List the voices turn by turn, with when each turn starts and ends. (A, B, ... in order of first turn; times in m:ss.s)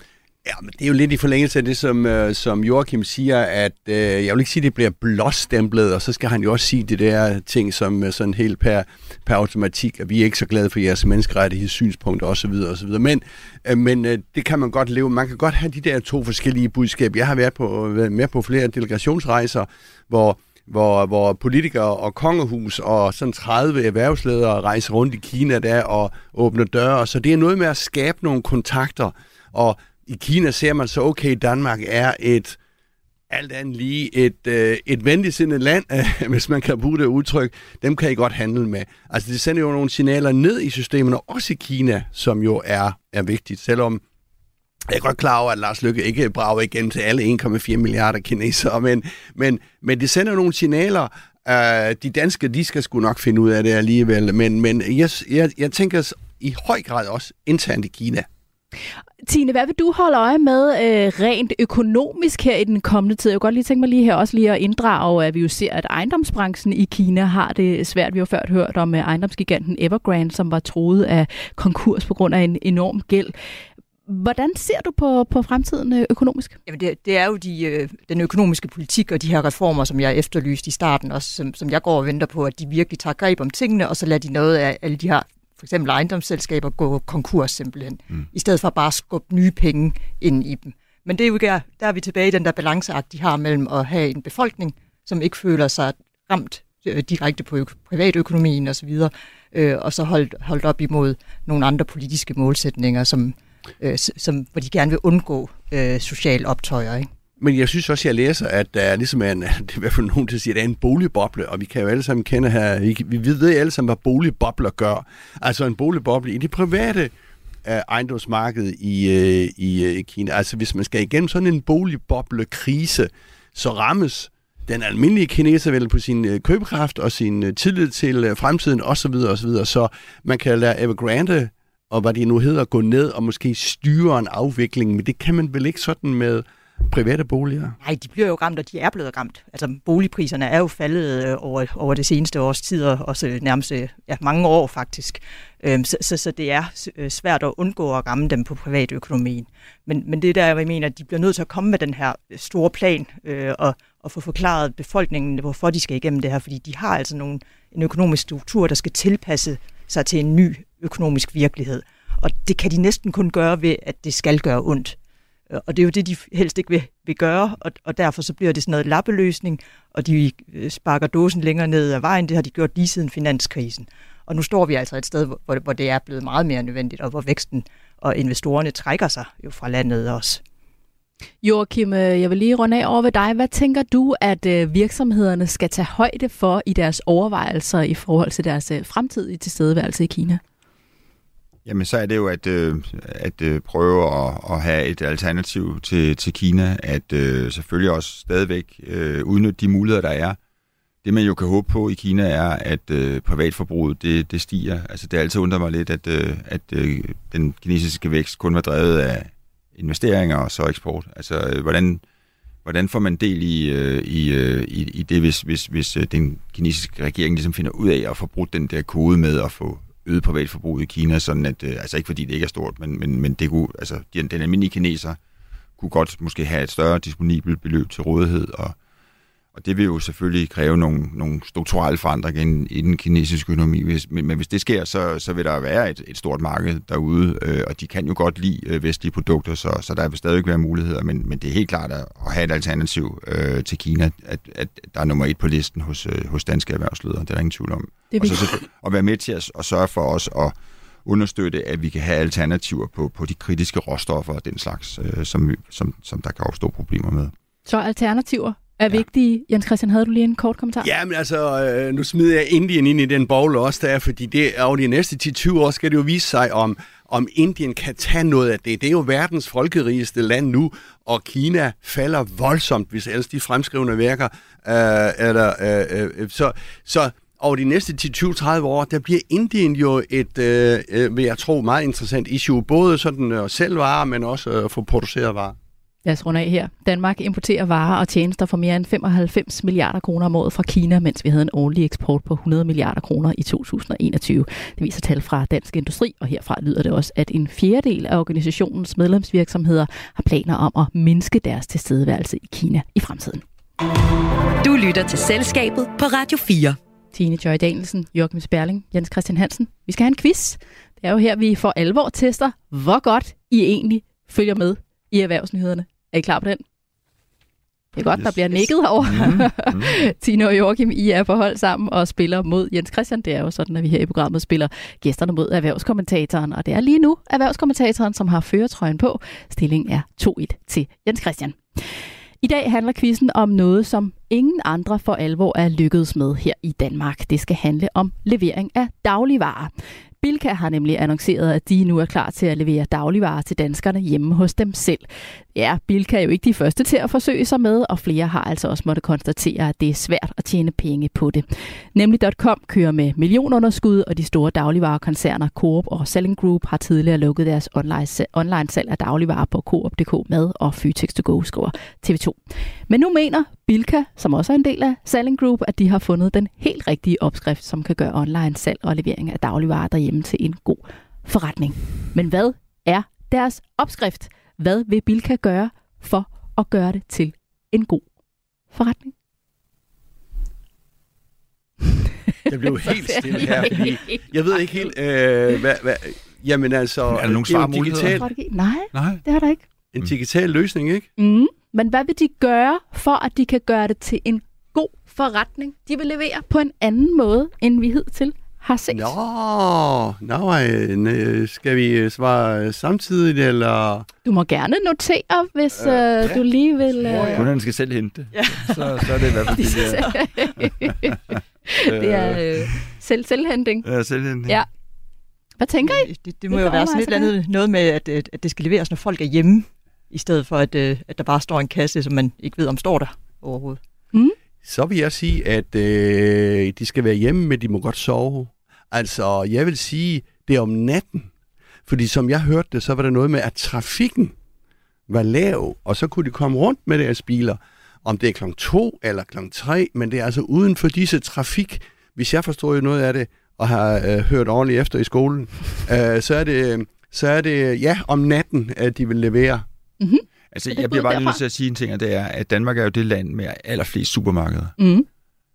0:00.4-0:32.6 A
0:33.3-0:44.0 A
0:44.9-0:58.3 A
0:59.2-1:13.3 B
1:14.1-1:16.6 B
1:16.7-1:47.1 C
1:47.4-1:57.1 A
1:57.6-2:17.7 A
2:17.8-2:45.0 C
2:45.5-3:00.4 C
3:01.4-3:10.4 B
3:11.6-3:20.4 D
3:21.0-3:32.0 D
3:32.6-3:45.2 D
3:45.8-3:48.8 D
3:49.5-4:17.3 D
4:08.1-4:08.5 B
4:17.6-4:20.9 B
4:20.8-4:45.6 A
4:46.0-5:03.4 B
5:04.6-5:06.8 E
5:07.1-5:16.6 B
5:17.9-5:31.9 B
5:18.1-5:20.0 D
5:32.4-6:02.4 B
6:02.9-6:18.0 B
6:18.7-6:19.1 B
6:22.5-6:28.3 A
6:22.7-6:24.8 B
6:27.1-6:28.3 D
6:28.1-6:29.6 B
6:28.9-6:29.2 D
6:29.9-6:31.1 A
6:31.2-6:39.1 B
6:38.9-6:44.1 A
6:44.2-6:47.5 B
6:45.8-6:46.4 A
6:46.9-6:47.5 A
6:47.3-6:51.2 D
6:48.3-6:49.4 C
6:49.5-6:53.9 B
6:51.8-6:52.8 D
6:53.8-6:54.6 D
6:55.6-6:57.3 B
6:55.8-7:03.8 C
7:04.6-7:11.3 A
7:11.9-7:14.3 A
7:15.1-7:29.6 A
7:30.0-7:31.4 B
7:30.5-7:34.8 D
7:34.8-7:35.1 B